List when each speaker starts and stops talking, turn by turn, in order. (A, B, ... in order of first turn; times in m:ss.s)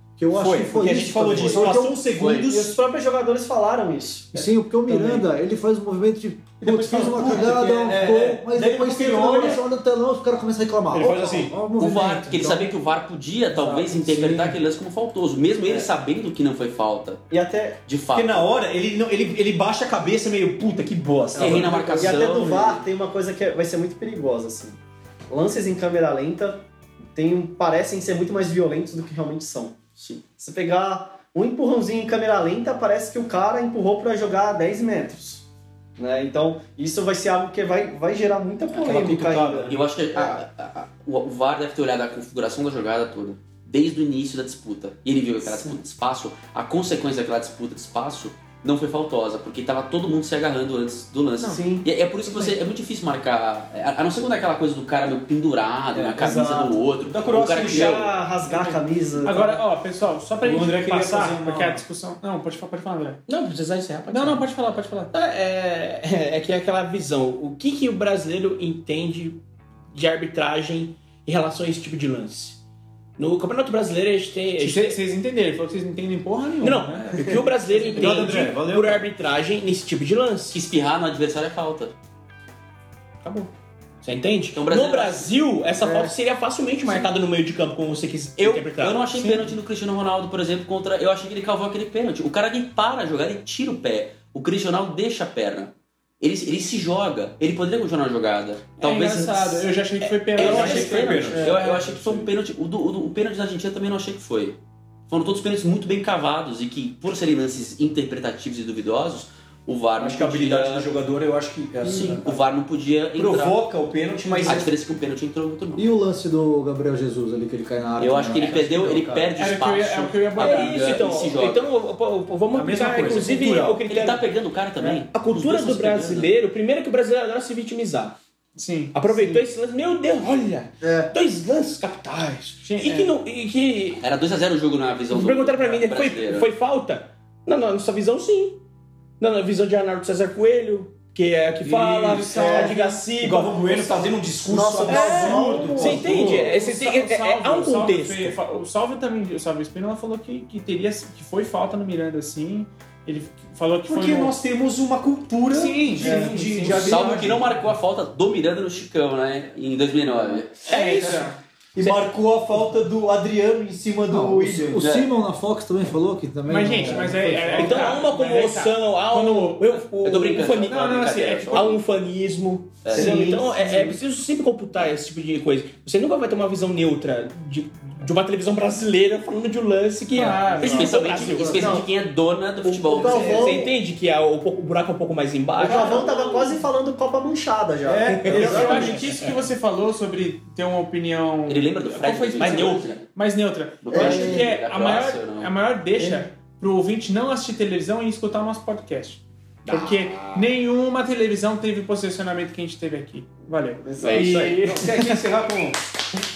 0:00.2-0:02.0 A
0:00.3-0:02.8 B
0:01.3-0:02.5 C
0:02.2-0:05.2 D
0:04.3-0:12.7 A
0:06.6-0:09.6 B
0:07.0-0:07.6 D
0:10.9-0:11.6 B
0:11.8-0:17.2 C
0:14.0-0:14.5 A
0:15.6-0:15.9 D
0:17.3-0:17.8 D
0:17.9-0:18.5 C
0:18.1-0:22.2 B
0:21.3-0:24.8 D
0:21.4-0:22.9 C
0:25.3-0:29.8 D
0:30.0-0:30.2 C
0:30.4-0:35.4 D
0:36.0-0:40.4 D
0:38.7-0:39.8 B
0:39.7-0:58.1 C
0:45.4-0:45.8 D
0:51.4-0:51.6 E
0:51.4-0:51.9 D
0:55.9-0:58.1 B
0:56.2-0:56.8 D
0:57.6-0:59.5 D
0:58.4-1:03.2 E
0:59.2-0:59.6 B
1:00.4-1:01.8 B
1:03.3-1:04.5 F
1:04.1-1:05.1 E
1:05.1-1:09.4 F
1:09.9-1:12.6 F
1:13.2-1:15.0 F
1:14.6-1:17.2 E
1:16.6-1:20.6 F
1:17.0-1:17.3 B
1:17.7-1:18.4 E
1:17.9-1:19.0 B
1:20.5-1:21.9 C
1:24.0-1:29.0 F
1:24.5-1:25.4 C
1:25.8-1:26.1 D
1:28.4-1:39.7 C
1:29.1-1:29.5 E
1:38.8-1:41.2 E
1:40.3-1:42.3 B
1:40.4-1:50.9 C
1:41.4-1:41.6 D
1:50.0-1:52.4 B
1:51.8-1:53.6 C
1:53.2-1:54.7 B
1:54.4-1:55.9 C
1:55.8-1:58.8 A
1:58.0-2:01.7 C
1:58.3-1:59.3 B
1:59.4-2:01.0 E
2:00.4-2:04.3 F
2:02.5-2:03.8 B
2:03.8-2:06.3 C
2:05.1-2:08.2 F
2:08.6-2:09.0 E
2:08.9-2:14.0 F
2:09.2-2:09.4 D
2:10.8-2:11.1 D
2:12.6-2:13.2 E
2:14.0-2:16.5 C
2:15.1-2:18.6 F
2:19.2-2:24.1 F
2:21.6-2:26.5 B
2:22.1-2:23.0 E
2:22.3-2:22.7 D
2:24.4-2:26.2 D
2:24.9-2:28.3 F
2:24.9-2:34.4 E
2:33.9-2:37.6 B
2:35.5-2:37.4 E
2:36.0-2:36.4 D
2:36.8-2:40.7 C
2:40.7-2:41.4 E
2:40.7-2:44.9 B
2:40.7-2:41.2 F
2:41.8-2:42.0 F
2:44.1-2:48.0 A
2:44.8-2:45.1 C
2:46.5-2:49.8 E
2:46.6-2:47.7 B
2:47.6-3:01.8 F
2:50.0-2:51.8 C
2:50.4-2:51.7 E
2:52.8-2:53.3 C
2:52.9-2:53.9 B
3:00.1-3:01.0 E
3:00.5-3:03.6 C
3:00.6-3:01.9 D
3:01.3-3:01.8 A
3:02.6-3:06.4 F
3:02.9-3:03.7 D
3:05.6-3:09.1 D
3:05.6-3:06.1 E
3:07.9-3:09.3 B
3:08.1-3:09.3 F
3:08.3-3:25.3 E
3:11.5-3:13.0 C
3:12.4-3:12.8 F
3:13.8-3:15.5 C
3:13.9-3:14.5 D
3:19.7-3:20.5 F
3:23.8-3:24.5 D
3:24.0-3:24.6 C
3:24.4-3:25.9 B